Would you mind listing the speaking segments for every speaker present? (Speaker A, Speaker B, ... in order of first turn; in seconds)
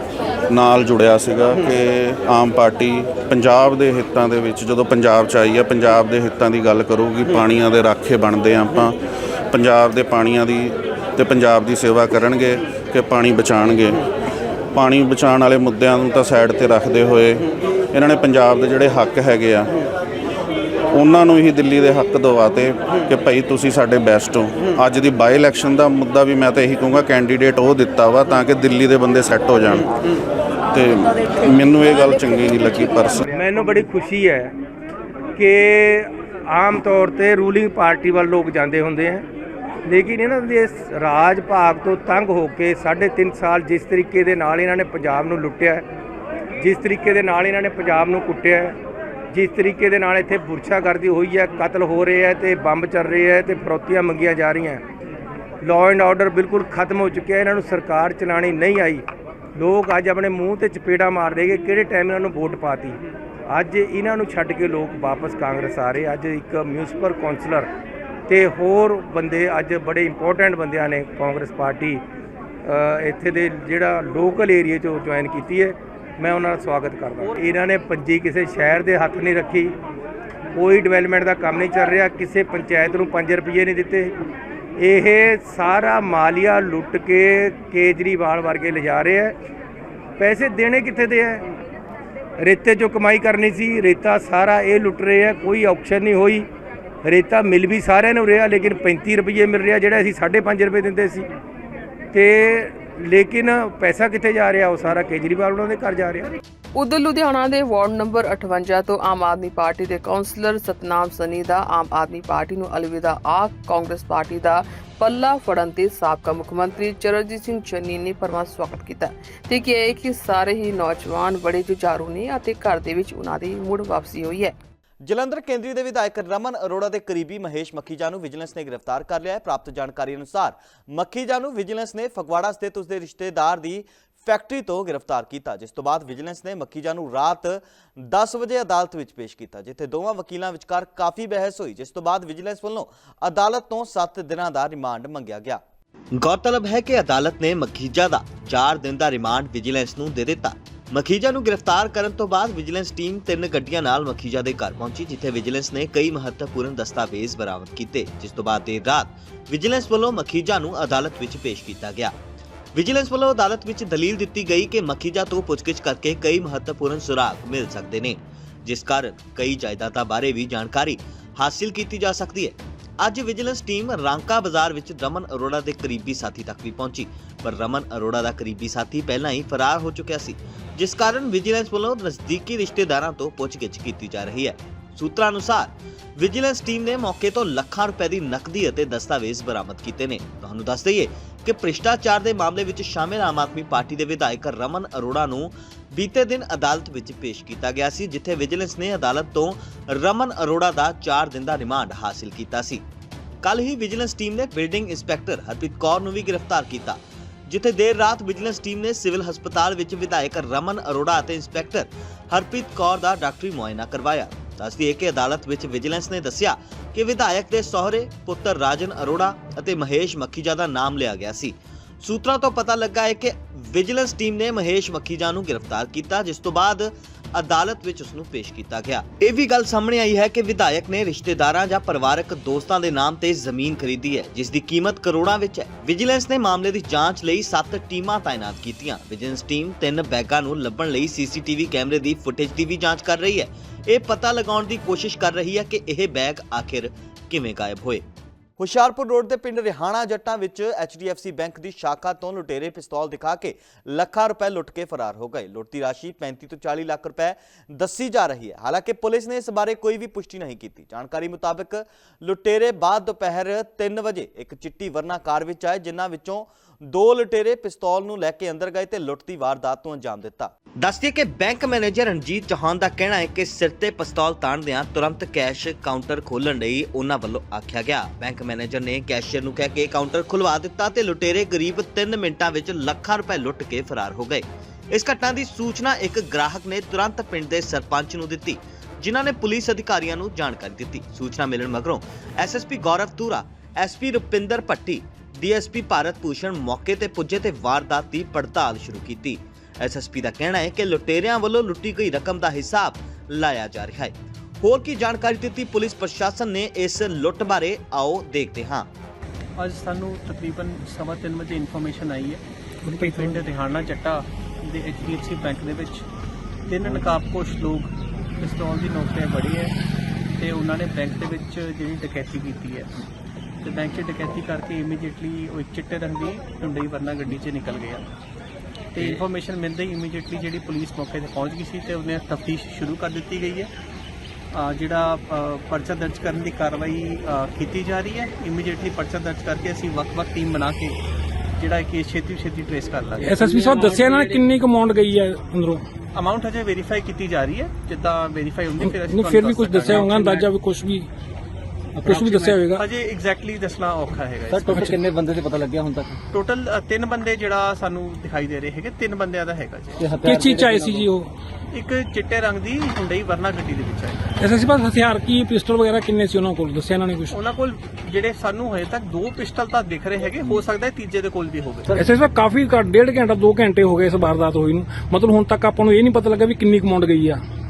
Speaker A: 0.5-8.9, 9.5-14.0, 14.7-19.8, 20.9-29.9, 30.7-33.2
Speaker B: 33.3-34.5, 35.4-39.2, 39.8-45.8, 46.6-48.8, 49.3-54.8, 55.6-67.7, 68.3-72.0, 72.6-79.8, 80.5-84.1, 84.8-89.3, 90.2-91.4, 92.4-96.5, 97.0-101.3, 102.1-106.4
Speaker C: 106.7-124.5
Speaker D: 125.1-145.6, 146.2-162.1, 162.7-202.8, 203.4-248.0, 248.6-308.9
Speaker E: 309.6-316.0, 316.7-319.7, 320.4-322.9, 323.6-328.0, 328.9-333.7, 334.5-340.9, 341.6-343.5, 346.1-350.5, 352.0-355.0, 356.3-360.1, 361.7-364.3, 367.3-371.9
Speaker F: 343.2-345.8, 348.8-351.1, 352.1-352.8, 360.3-361.3, 364.4-367.3, 371.9-377.4
Speaker G: 354.5-356.2, 360.0-361.1